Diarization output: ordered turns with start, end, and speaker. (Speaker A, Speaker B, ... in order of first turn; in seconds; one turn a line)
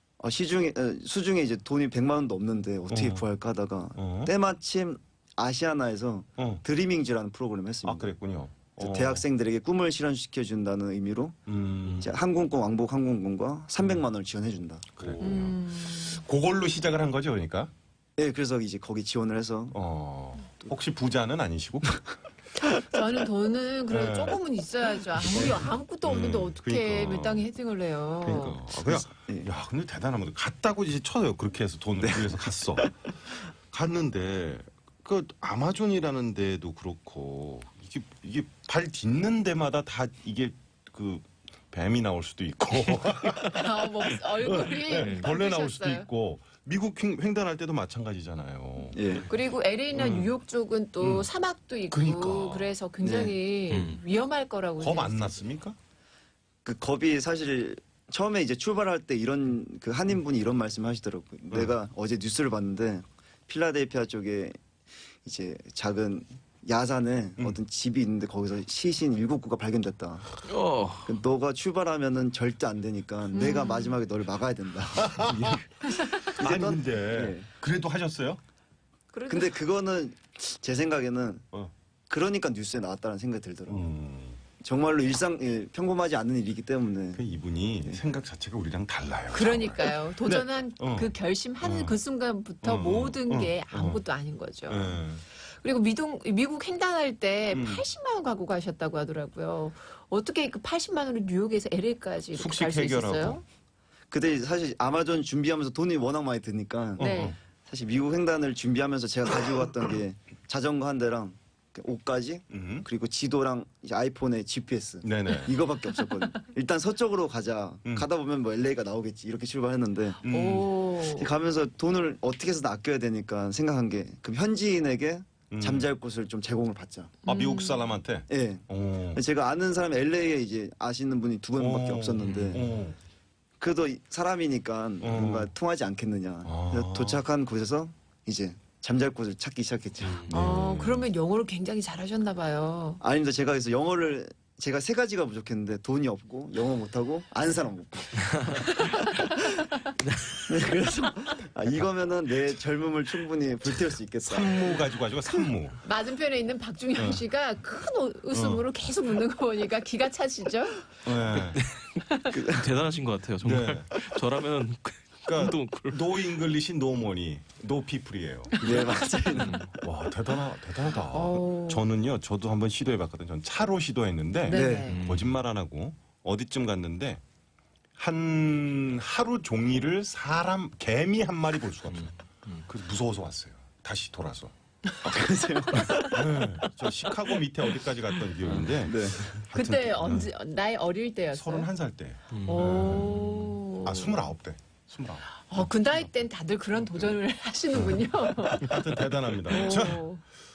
Speaker A: 0.2-8.1
Speaker B: 2.9-3.2
Speaker B: 4.0-4.3
Speaker B: 7.8-9.2
Speaker A: 8.8-11.4
Speaker B: 11.5-12.1
Speaker A: 12.0-15.2
Speaker B: 15.0-17.7
Speaker C: 15.2-16.2
Speaker A: 18.2-19.8
Speaker B: 19.7-22.0
Speaker C: 22.7-28.6
Speaker B: 23.9-24.4
Speaker B: 25.2-27.5
Speaker B: 28.2-33.1
Speaker A: 28.6-29.5
Speaker A: 32.0-32.9
Speaker B: 33.7-49.2
Speaker C: 43.4-46.1
Speaker D: 45.0-45.2
Speaker A: 48.9-49.3
Speaker C: 49.3-55.4
Speaker B: 50.0-50.3
Speaker B: 51.0-51.3
Speaker B: 51.9-52.8
Speaker A: 53.0-53.4
Speaker D: 53.7-54.0
Speaker B: 54.8-55.8
Speaker A: 56.6-64.6
Speaker A: 65.2-70.3
Speaker D: 70.5-71.1
Speaker A: 71.0-75.6
Speaker C: 73.3-74.0
Speaker B: 75.0-78.4
Speaker A: 76.2-77.5
Speaker C: 79.1-79.5
Speaker A: 79.3-81.5
Speaker A: 82.1-83.8
Speaker B: 83.7-84.4
Speaker A: 84.6-87.2
Speaker B: 87.2-92.0
Speaker C: 89.3-103.4
Speaker B: 92.6-94.0
Speaker B: 94.7-95.2
Speaker B: 97.5-97.8
Speaker B: 102.3-103.4
Speaker A: 104.1-120.3
Speaker B: 107.0-107.4
Speaker C: 107.0-107.3
Speaker B: 112.5-112.9
Speaker B: 115.0-115.5
Speaker B: 120.2-120.7
Speaker C: 120.2-121.3
Speaker A: 121.0-127.2
Speaker B: 125.5-125.9
Speaker C: 127.3-128.0
Speaker B: 127.3-129.2
Speaker A: 128.3-132.7
Speaker B: 131.6-133.0
Speaker A: 133.6-140.3
Speaker B: 135.0-135.5
Speaker B: 136.4-137.2
Speaker B: 140.3-141.1
Speaker C: 140.3-143.0
Speaker A: 143.0-149.0
Speaker C: 148.7-149.9
Speaker D: 150.0-150.4
Speaker A: 150.4-154.9
Speaker B: 154.2-155.8
Speaker C: 155.8-161.0
Speaker B: 157.0-157.2
Speaker B: 158.3-158.7
Speaker B: 161.0-161.7
Speaker D: 161.3-166.0
Speaker A: 162.3-162.7
Speaker B: 163.4-164.0
Speaker B: 165.2-168.9
Speaker A: 168.6-169.6
Speaker D: 169.4-169.7
Speaker B: 169.7-177.2
Speaker C: 171.0-171.8
Speaker C: 174.5-175.0
Speaker A: 174.5-174.9
Speaker D: 174.8-175.3
Speaker B: 178.0-184.5
Speaker A: 185.0-186.3
Speaker B: 185.8-190.3
Speaker C: 185.8-186.2
Speaker A: 188.8-189.4
Speaker C: 189.5-191.7
Speaker B: 191.3-193.2
Speaker D: 192.3-193.6
Speaker C: 192.4-194.2
Speaker B: 193.8-196.0
Speaker C: 195.5-200.2
Speaker B: 197.8-200.1